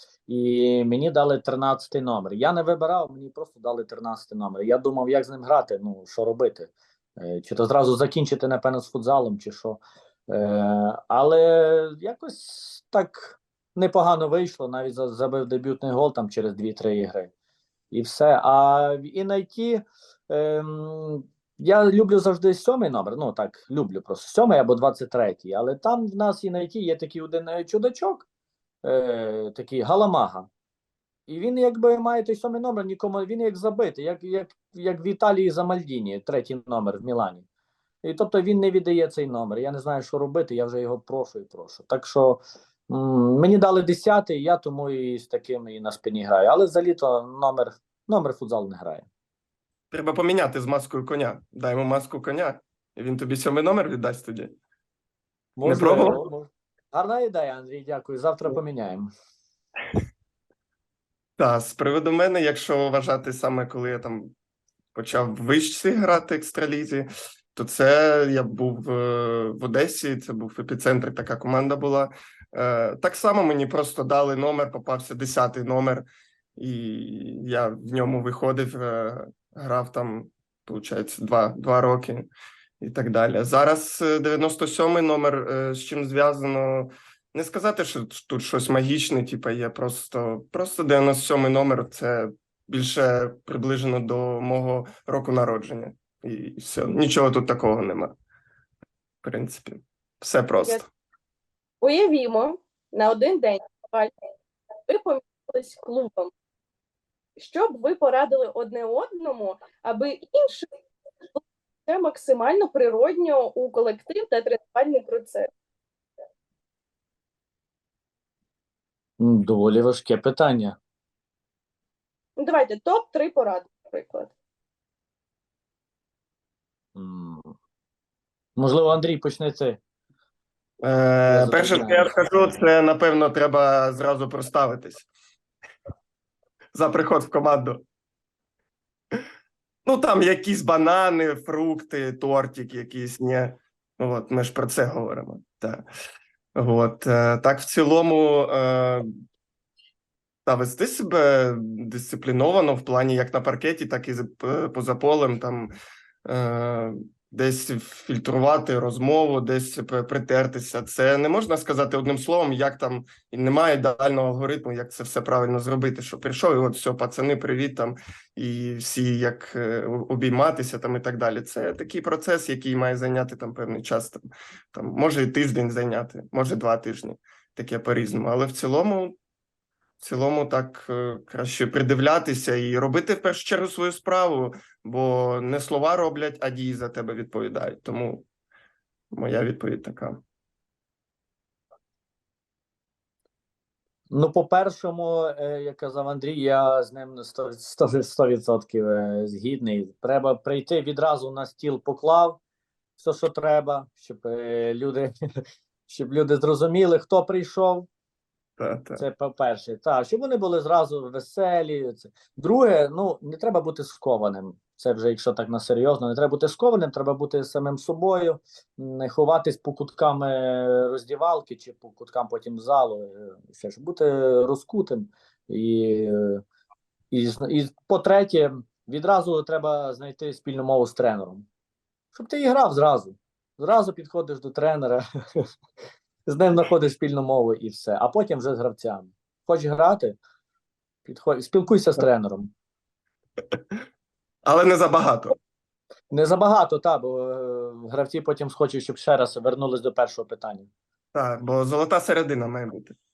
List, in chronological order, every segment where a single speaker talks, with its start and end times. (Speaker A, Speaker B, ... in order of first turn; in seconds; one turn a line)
Speaker A: 0.3-17.3
Speaker A: 17.9-28.2
Speaker A: 28.8-30.5
Speaker A: 31.3-37.4
Speaker A: 38.0-49.0
Speaker B: 49.9-54.5
Speaker A: 55.5-59.1
Speaker B: 55.6-56.2
Speaker B: 61.4-64.3
Speaker B: 64.9-82.3
Speaker B: 82.8-98.1
Speaker B: 99.2-100.8
Speaker C: 101.8-104.1
Speaker C: 104.9-106.3
Speaker C: 107.4-110.7
Speaker C: 111.3-115.5
Speaker A: 119.2-120.8
Speaker C: 122.4-124.3
Speaker A: 126.9-127.5
Speaker A: 128.6-129.8
Speaker B: 130.8-135.1
Speaker A: 131.3-132.1
Speaker B: 136.7-137.8
Speaker B: 139.8-145.8
Speaker B: 146.5-149.1
Speaker B: 150.4-155.7
Speaker B: 156.2-179.2
Speaker B: 180.0-188.2
Speaker B: 189.1-190.2
Speaker A: 194.1-202.4
Speaker A: 203.0-205.1
Speaker A: 205.9-207.9
Speaker B: 208.6-209.0
Speaker A: 209.0-226.4
Speaker A: 227.1-231.4
Speaker A: 232.1-235.4
Speaker A: 236.2-240.2
Speaker A: 241.0-242.5
Speaker B: 244.4-245.3
Speaker A: 246.1-250.7
Speaker B: 251.1-252.9